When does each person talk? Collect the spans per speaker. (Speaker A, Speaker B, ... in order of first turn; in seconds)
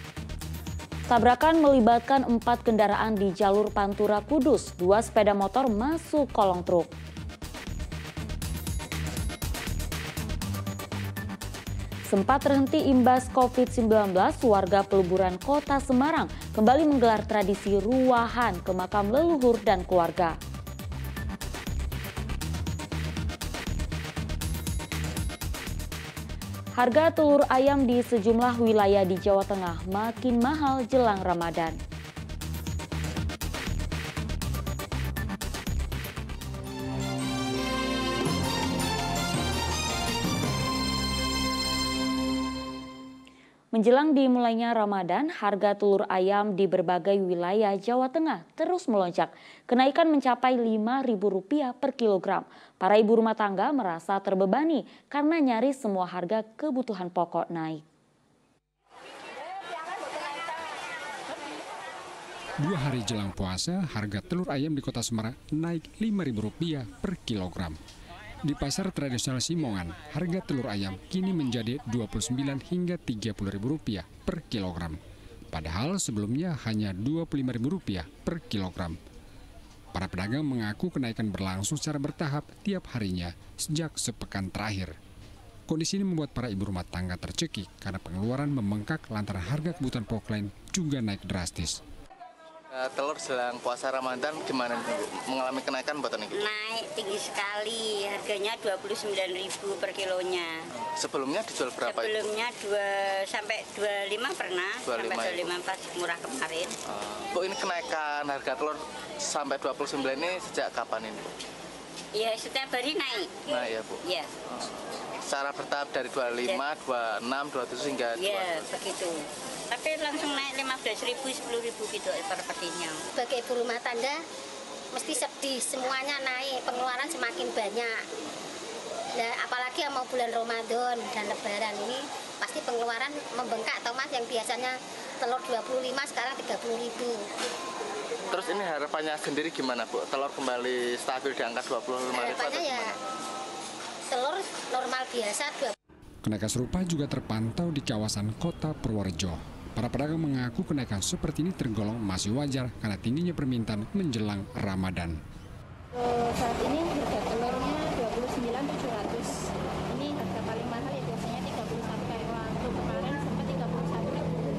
Speaker A: 1.1-6.9, 12.1-20.4, 26.8-31.8, 43.7-57.8
Speaker B: 62.6-67.8, 68.5-75.0, 75.5-79.0, 79.9-84.9, 85.7-91.8, 146.2-155.2
Speaker C: 92.7-96.5, 101.0-102.3, 104.8-105.6, 106.9-111.3, 113.5-118.8, 138.3-143.0
Speaker D: 96.3-100.6, 101.8-106.7, 112.1-114.3, 118.2-123.0
Speaker E: 123.2-124.2, 124.9-127.9, 129.2-137.2, 142.1-142.9, 144.1-145.7
Speaker F: 155.9-159.3, 159.9-164.4